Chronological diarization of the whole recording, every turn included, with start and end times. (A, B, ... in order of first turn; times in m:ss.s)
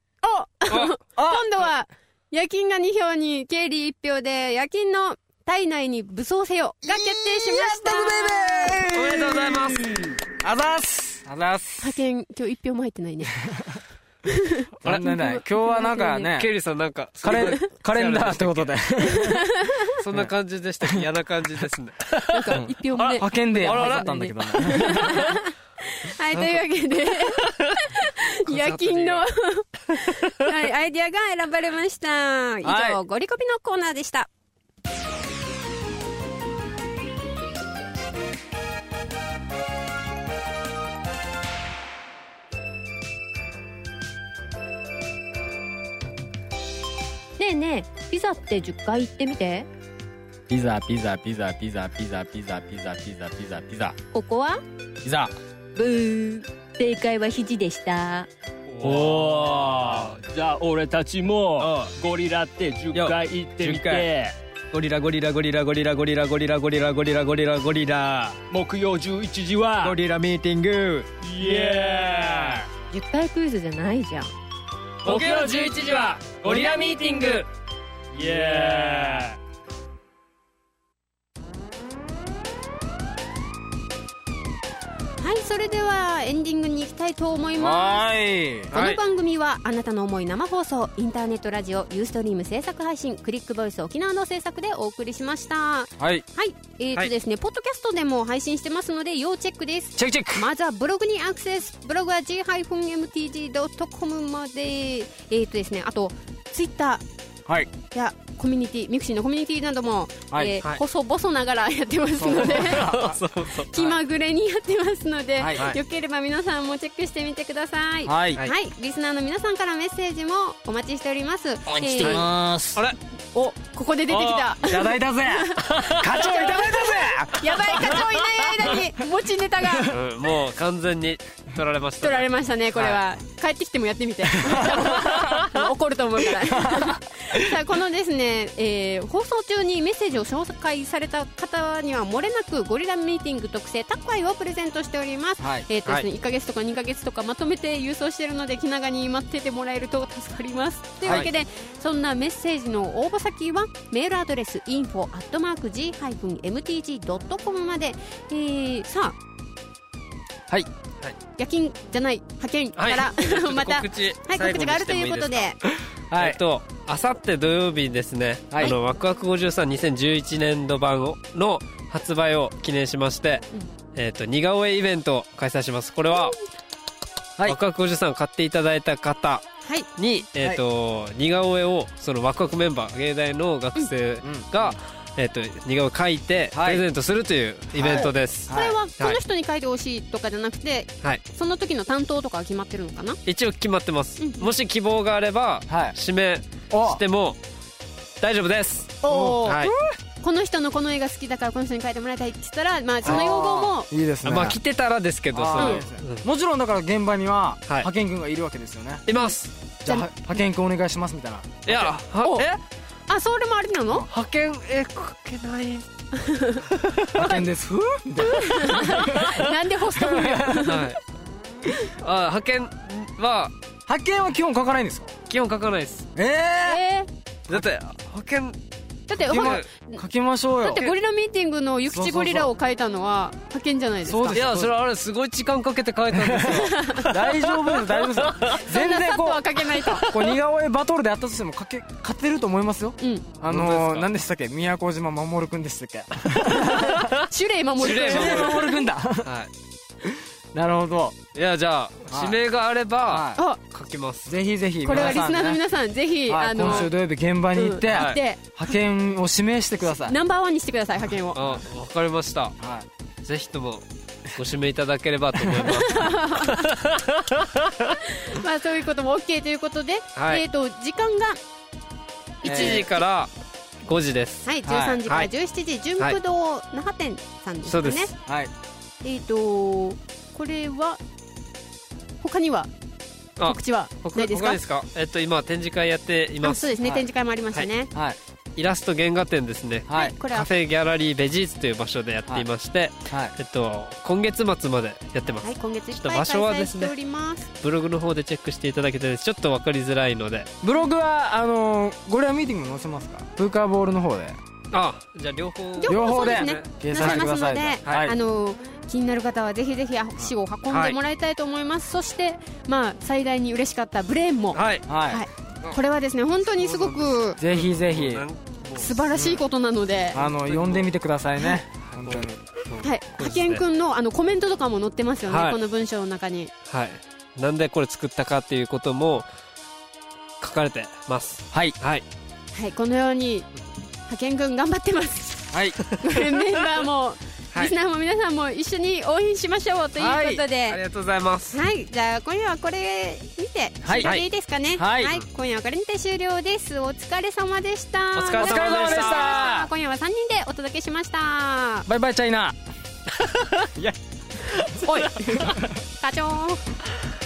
0:00.2-0:08.8 A
0:01.2-0:01.5 B
0:06.8-0:12.0 B
0:08.9-0:10.1 C
0:11.8-0:13.3 A
0:13.4-0:13.8 B
0:14.8-0:16.5 B
0:14.8-0:16.3 A
0:16.3-0:18.7 C
0:17.2-0:19.4 B
0:17.3-0:17.6 A
0:19.1-0:19.8 A
0:20.0-0:22.6 C
0:20.1-0:21.1 B
0:22.3-0:34.3 A
0:22.5-0:25.3 B
0:23.6-0:25.1 C
0:26.3-0:26.6 C
0:27.2-0:27.5 C
0:28.4-0:29.2 C
0:32.6-0:33.0 B
0:47.4-0:49.7 D
0:50.5-0:54.0 B
0:54.2-0:54.6 D
0:55.0-0:55.3 B
0:55.8-0:58.3 D
0:58.7-0:59.9 C
0:58.8-1:04.4 E
1:01.6-1:01.9 C
1:02.9-1:04.0 C
1:04.7-1:08.4 C
1:04.7-1:05.1 B
1:08.5-1:10.0 E
1:09.8-1:11.0 B
1:09.8-1:10.2 C
1:11.2-1:12.7 E
1:12.9-1:14.3 D
1:15.0-1:17.4 E
1:15.1-1:15.7 C
1:18.1-1:19.4 E
1:25.2-1:28.0 A
1:27.6-1:28.7 B
1:28.7-1:47.0 A
1:28.7-1:29.0 C
1:36.0-1:36.2 B
1:40.0-1:40.5 B
1:47.4-1:47.7 B
1:47.9-1:52.9 A
1:50.3-1:50.6 B
1:52.2-1:53.2 B
1:52.5-1:53.9 C
1:53.7-2:02.2 A
1:55.4-1:55.7 B
1:58.0-1:58.4 B
2:01.7-2:02.8 B
2:02.0-2:03.0 C
2:03.3-2:10.0 A
2:04.1-2:04.5 C
2:04.6-2:08.1 B
2:05.7-2:06.0 C
2:09.6-2:09.9 B
2:09.9-2:13.0 C
2:12.0-2:39.2 A
2:14.4-2:14.8 B
2:16.4-2:17.5 B
2:25.4-2:25.6 B
2:31.0-2:31.3 C
2:41.4-2:45.6 A
2:42.8-2:45.5 C
2:46.1-2:46.4 B
2:46.2-2:56.3 C
2:48.5-2:48.8 B
2:57.4-3:09.2 C
3:04.2-3:04.8 B
3:06.5-3:06.8 B
3:07.7-3:08.8 B
3:08.5-3:13.2 A
3:13.2-3:17.4 C
3:14.2-3:14.5 A
3:15.7-3:16.0 B
3:16.7-3:17.0 B
3:18.2-3:19.7 C
3:19.0-3:19.9 B
3:20.2-3:23.9 A
3:23.0-3:24.6 B
3:24.2-3:26.2 C
3:25.3-3:29.0 B
3:29.1-3:29.5 C
3:29.8-3:31.9 B
3:31.6-3:32.6 C
3:32.2-3:32.5 A
3:33.1-3:34.1 A
3:34.1-3:35.9 C
3:36.2-3:36.6 A
3:36.7-3:37.4 C
3:37.1-3:39.2 B
3:38.2-3:40.9 A
3:39.0-3:39.4 C
3:39.9-3:40.7 B
3:40.6-3:41.0 C
3:42.0-3:43.5 C
3:43.9-3:45.1 B
3:45.3-3:46.1 C
3:46.2-3:46.8 B
3:46.6-3:47.1 A
3:47.5-3:48.6 C
3:49.1-3:50.0 A
3:49.3-3:50.9 B
3:49.3-3:49.6 C
3:50.6-3:54.4 A
3:51.9-3:52.5 B
3:54.0-3:54.7 B
3:54.3-3:58.6 C
3:56.1-4:07.1 B
3:56.6-3:57.0 A
3:58.6-4:00.1 A
4:00.0-4:00.4 C
4:03.0-4:03.3 A
4:03.5-4:04.1 C
4:07.2-4:08.7 A
4:07.8-4:09.5 C
4:07.8-4:09.3 B
4:10.0-4:11.2 B
4:11.3-4:14.4 C
4:12.1-4:12.4 B
4:13.1-4:13.4 B
4:14.2-4:15.6 B
4:14.8-4:16.9 A
4:14.9-4:15.2 C
4:16.3-4:20.2 B
4:16.6-4:16.9 C
4:17.5-4:18.5 A
4:17.9-4:18.2 C
4:20.0-4:21.4 A
4:21.3-4:22.6 C
4:22.6-4:22.9 B
4:23.2-4:28.0 C
4:25.7-4:26.7 A
4:28.2-4:31.4 A
4:30.2-4:30.4 C
4:32.4-4:32.9 A
4:32.4-4:32.9 B
4:32.4-4:33.3 C
4:33.8-4:34.5 C
4:34.4-4:38.1 A
4:34.6-4:35.0 B
4:37.6-4:38.1 C
4:38.3-4:38.5 B
4:39.0-4:41.0 A
4:42.2-4:42.7 A
4:43.4-4:47.7 C
4:43.4-4:44.6 A
4:46.4-4:47.9 A
4:48.6-4:56.9 C
4:49.9-4:50.1 B
4:49.9-4:50.5 A
4:53.1-4:53.3 B
4:55.4-4:57.5 A
4:57.6-5:00.5 C
5:00.6-5:04.4 B
5:04.7-5:07.2 C
5:05.8-5:17.4 A
5:05.8-5:08.1 B
5:10.7-5:11.0 C
5:14.5-5:14.8 C
5:14.9-5:15.2 B
5:16.5-5:19.4 C
5:17.4-5:18.3 B
5:18.7-5:20.2 A
5:20.1-5:22.4 B
5:20.1-5:20.8 C
5:21.9-5:23.6 C
5:22.8-5:26.5 A
5:25.3-5:25.6 C
5:26.7-5:29.3 C
5:30.4-5:32.0 C
5:31.5-5:31.8 B
5:32.5-5:33.5 A
5:34.1-5:40.8 A
5:35.5-5:35.8 B
5:40.0-5:40.4 B
5:40.7-5:41.6 C
5:41.5-5:51.9 A
5:43.8-5:44.1 B
5:44.8-5:45.2 B
5:48.2-5:49.5 C
5:48.4-5:49.7 B
5:51.8-5:52.6 B
5:53.2-5:53.9 C
5:54.5-5:55.4 C
5:54.8-5:55.7 B
5:54.8-5:56.6 A